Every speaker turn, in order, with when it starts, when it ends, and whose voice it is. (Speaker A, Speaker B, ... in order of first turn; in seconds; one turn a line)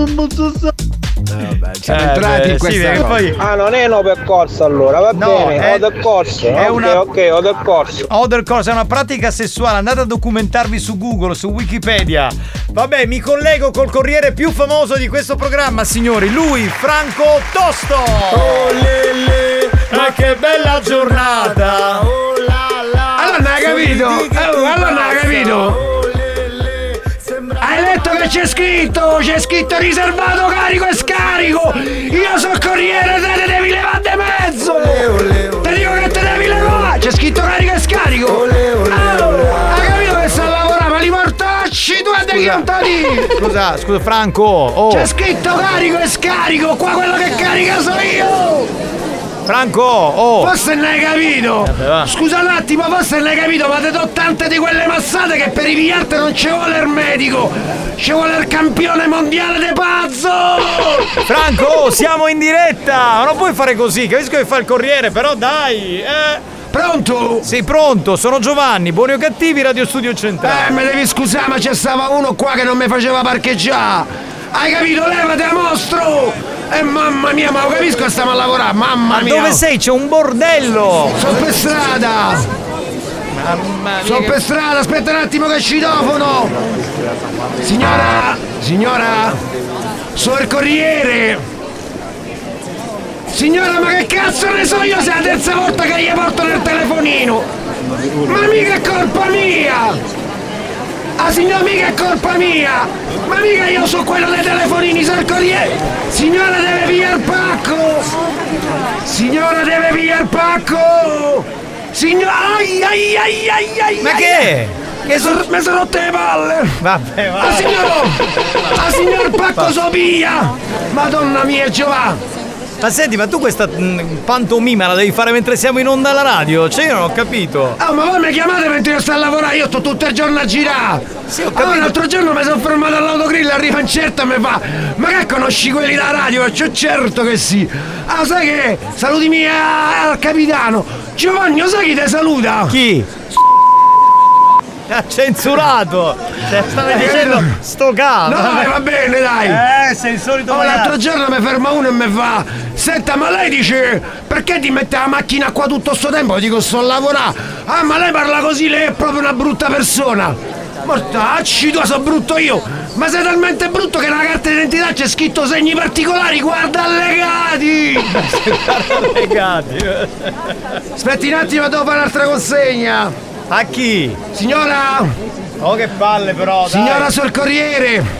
Speaker A: 1.3-3.3
Speaker B: 1.9-3.4
Speaker C: 3.6-8.0
Speaker B: 5.2-6.0
Speaker B: 6.5-7.0
Speaker B: 8.1-18.8
Speaker B: 19.9-22.1
Speaker A: 23.2-25.8
Speaker A: 27.6-43.3
Speaker B: 42.3-42.6
Speaker B: 43.4-45.1
Speaker A: 44.9-48.7
Speaker B: 49.5-50.5
Speaker A: 50.4-61.1
Speaker B: 51.6-52.1
Speaker B: 61.3-66.4
Speaker A: 66.7-67.5
Speaker B: 67.4-70.8
Speaker A: 70.4-79.6
Speaker B: 79.1-81.4
Speaker A: 81.1-82.5
Speaker B: 83.3-84.4
Speaker A: 84.0-86.7
Speaker A: 87.6-89.4
Speaker A: 90.2-91.4
Speaker A: 93.3-97.5
Speaker A: 98.2-100.0
Speaker A: 101.2-108.1
Speaker A: 109.0-114.5
Speaker B: 114.0-115.5
Speaker A: 115.1-116.8
Speaker B: 116.8-118.8
Speaker A: 117.4-122.2
Speaker B: 122.8-127.8
Speaker A: 127.8-142.8
Speaker B: 131.3-132.0
Speaker B: 142.7-143.1
Speaker B: 144.9-148.8
Speaker A: 146.8-147.5
Speaker A: 148.2-149.6
Speaker B: 149.4-151.0
Speaker A: 150.5-168.1
Speaker B: 168.1-170.5
Speaker A: 171.0-173.1
Speaker B: 173.5-174.2
Speaker A: 174.3-175.2
Speaker B: 175.6-177.1
Speaker A: 176.6-178.1